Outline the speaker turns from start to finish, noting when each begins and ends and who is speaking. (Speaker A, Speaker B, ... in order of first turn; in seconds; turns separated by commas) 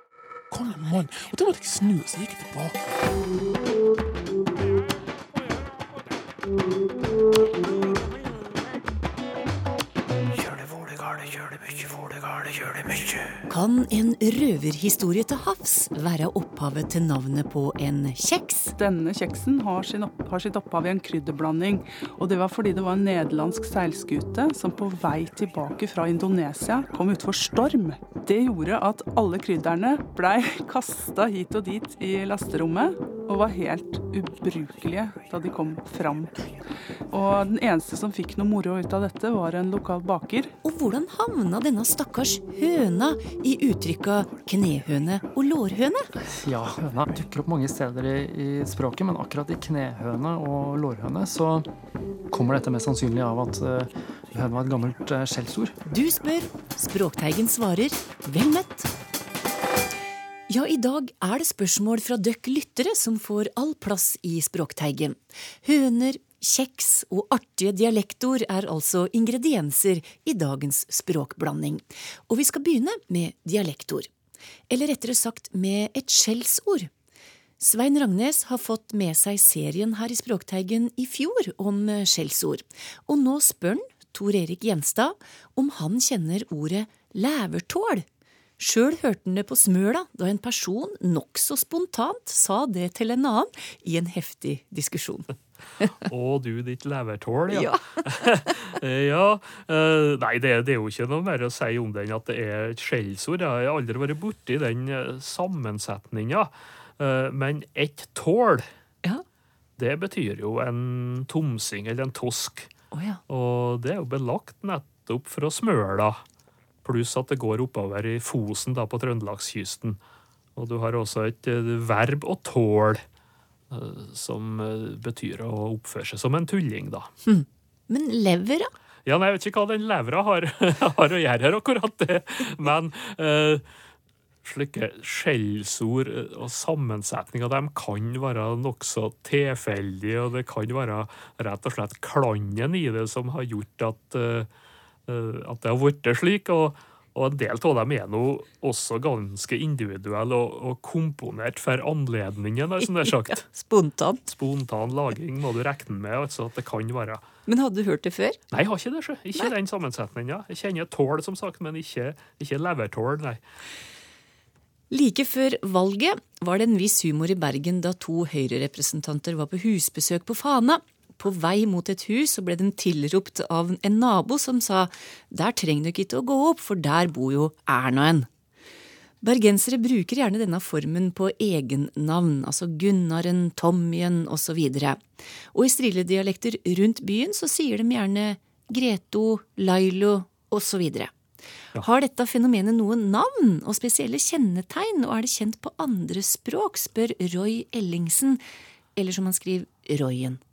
Speaker A: 0.5-3.1, Speaker B: 13.5-18.7, Speaker C: 18.8-36.4, Speaker C: 37.1-40.5, Speaker B: 40.6-46.1, Speaker D: 46.2-51.7, Speaker D: 52.3-55.8, Speaker B: 55.9-58.9, Speaker B: 60.5-74.1, Speaker B: 74.7-76.9, Speaker B: 77.6-88.0, Speaker B: 88.6-95.3, Speaker E: 96.0-108.7, Speaker B: 97.5-98.5, Speaker E: 109.8-112.7, Speaker B: 112.9-113.2, Speaker E: 113.3-116.2, Speaker E: 116.8-120.0, Speaker E: 120.6-123.0, Speaker E: 123.7-127.1, Speaker B: 127.2-128.7, Speaker E: 129.1-133.6, Speaker E: 134.4-144.5, Speaker E: 145.1-153.5, Speaker B: 153.0-154.2, Speaker E: 154.3-157.2, Speaker B: 157.5-158.4, Speaker E: 158.5-163.4, Speaker B: 164.9-178.3, Speaker B: 179.2-191.1, Speaker B: 191.8-198.4, Speaker B: 199.0-200.4